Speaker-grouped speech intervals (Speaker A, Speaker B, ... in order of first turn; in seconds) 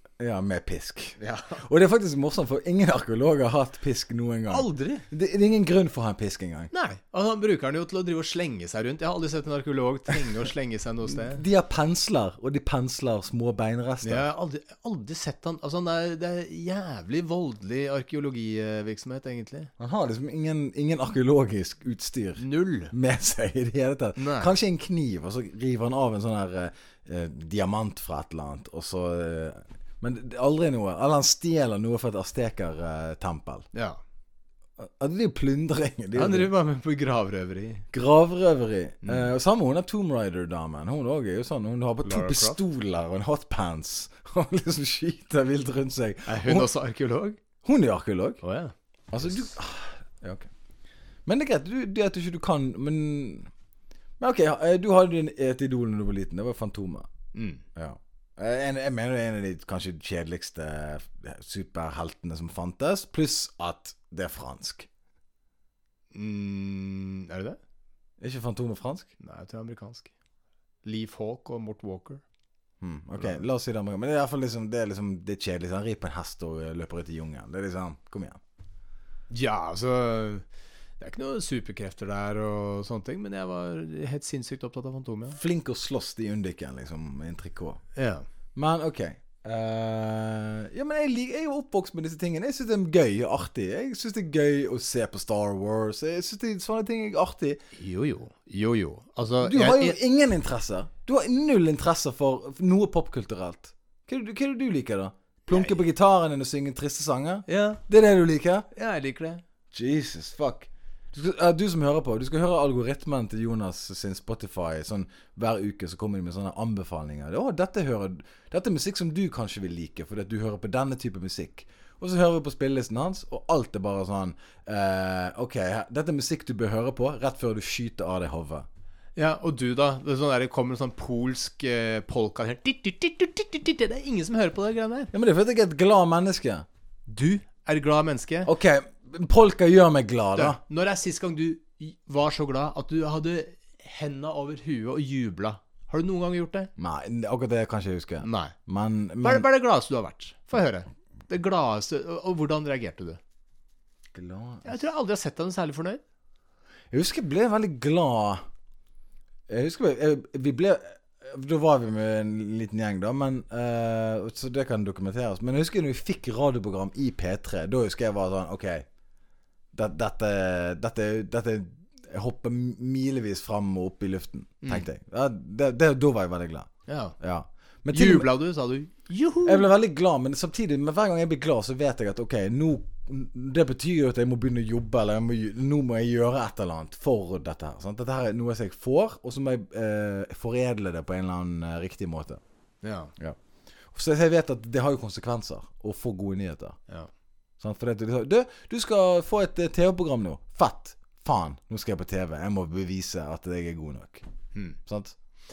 Speaker A: 0.2-6.7, 11.1-14.3, 19.8-33.6, 34.8-36.5, 37.9-46.7, 47.6-48.4, 49.1-50.5, 51.2-53.5, 54.2-57.1, 57.7-64.9, 68.2-69.1, 72.8-78.4, 85.3-87.8, 88.5-97.6, 99.4-108.7, 109.7-128.7, 135.1-136.7, 138.4-140.6, 146.8-149.4, 154.1-154.8, 156.9-158.4, 159.5-168.8, 169.7-178.3, 179.4-192.4, 193.9-196.8, 197.6-204.2, 204.9-205.1
Speaker B: 1.2-1.6, 4.5-5.0, 6.7-11.4, 14.0-19.7, 22.4-22.9, 24.2-24.5, 33.7-34.0, 36.1-37.9, 39.0-39.3, 42.0-42.6, 46.2-47.4, 48.4-49.4, 57.3-57.6, 66.1-67.6, 69.2-70.1, 70.8-72.2, 79.3-80.4, 81.0-85.4, 87.9-88.2, 97.7-100.0, 105.5-105.8, 107.5-107.8, 108.7-109.4, 129.2-135.1, 137.1-138.5, 140.3-146.7, 148.2-148.5, 149.2-153.2, 154.6-156.0, 176.9-177.2, 177.9-179.7, 192.8-193.1